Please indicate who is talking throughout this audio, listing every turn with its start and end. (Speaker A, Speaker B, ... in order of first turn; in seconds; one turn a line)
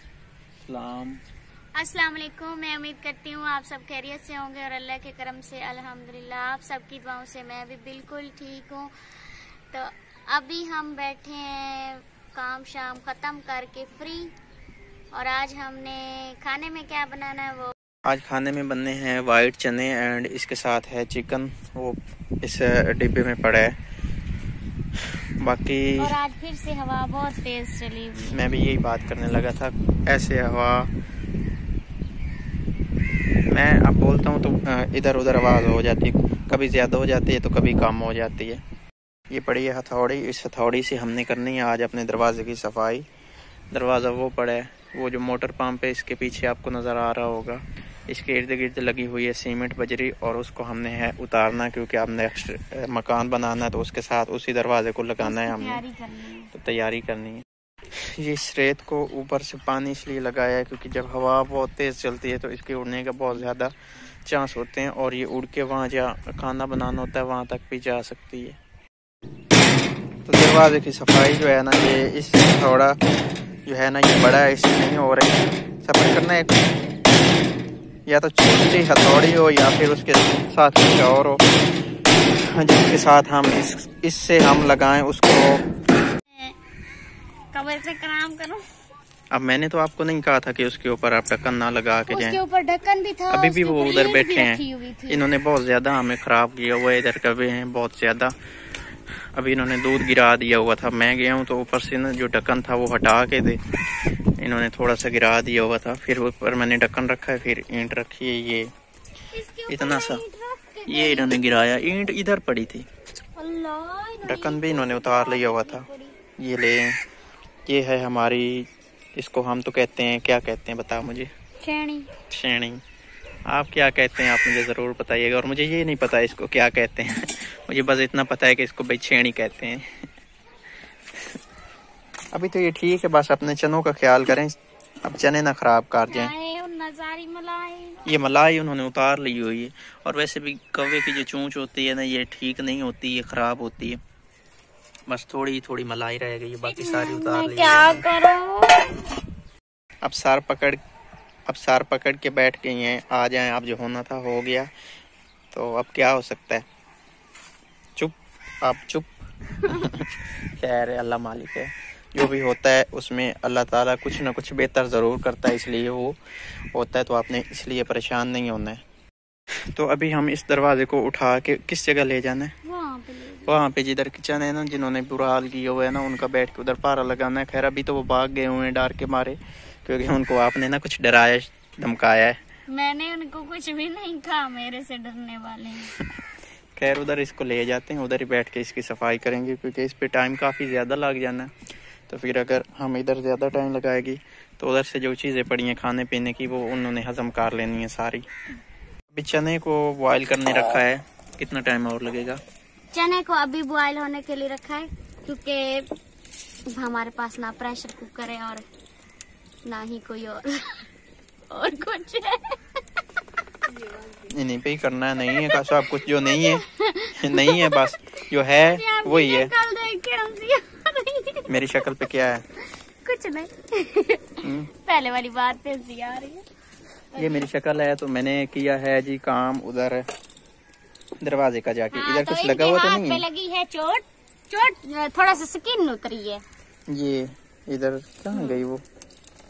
Speaker A: 0.6-1.2
Speaker B: 1.7-14.3
Speaker B: 15.1-17.7
Speaker A: 18.0-23.8
Speaker A: 25.4-26.1
Speaker B: 26.0-28.4
Speaker A: 28.2-30.9
Speaker A: 33.5-38.6
Speaker A: 39.3-43.0
Speaker A: 43.7-55.8
Speaker B: 55.2-56.5
Speaker A: 56.5-63.7
Speaker A: 64.2-68.6
Speaker A: 70.3-73.0
Speaker A: 73.7-76.6
Speaker A: 78.0-81.4
Speaker A: 82.4-85.7
Speaker B: 86.3-86.6
Speaker B: 87.5-88.7
Speaker A: 89.3-92.4
Speaker B: 92.1-95.2
Speaker A: 93.3-98.3
Speaker A: 99.3-103.6
Speaker A: 104.4-108.7
Speaker B: 109.3-111.4
Speaker A: 109.7-110.2
Speaker A: 110.9-112.9
Speaker B: 113.3-116.2
Speaker A: 114.2-115.8
Speaker A: 116.4-117.0
Speaker A: 117.7-121.3
Speaker B: 121.6-122.1
Speaker A: 122.3-122.8
Speaker A: 123.5-130.1
Speaker A: 132.3-136.3
Speaker B: 136.1-138.1
Speaker A: 138.1-144.0
Speaker A: 145.1-148.1
Speaker B: 146.6-148.9
Speaker A: 150.0-150.8
Speaker A: 151.4-154.7
Speaker A: 155.5-156.6
Speaker A: 158.0-159.1
Speaker A: 159.6-166.2
Speaker A: 166.7-168.8
Speaker A: 169.7-172.5
Speaker B: 172.6-173.6
Speaker A: 173.5-182.4
Speaker B: 182.7-185.9
Speaker A: 186.8-191.5
Speaker A: 192.1-198.3
Speaker A: 199.1-202.4
Speaker B: 202.9-205.9
Speaker B: 206.7-208.6
Speaker B: 209.6-210.9
Speaker B: 211.5-213.0
Speaker B: 213.7-214.3
Speaker A: 214.3-216.6
Speaker B: 215.2-222.1
Speaker A: 217.2-219.5
Speaker A: 221.5-222.4
Speaker B: 222.6-226.4
Speaker A: 224.4-224.7
Speaker B: 227.1-227.5
Speaker A: 227.2-230.1
Speaker A: 231.2-233.2
Speaker B: 231.9-236.4
Speaker A: 236.9-238.8
Speaker B: 238.3-238.6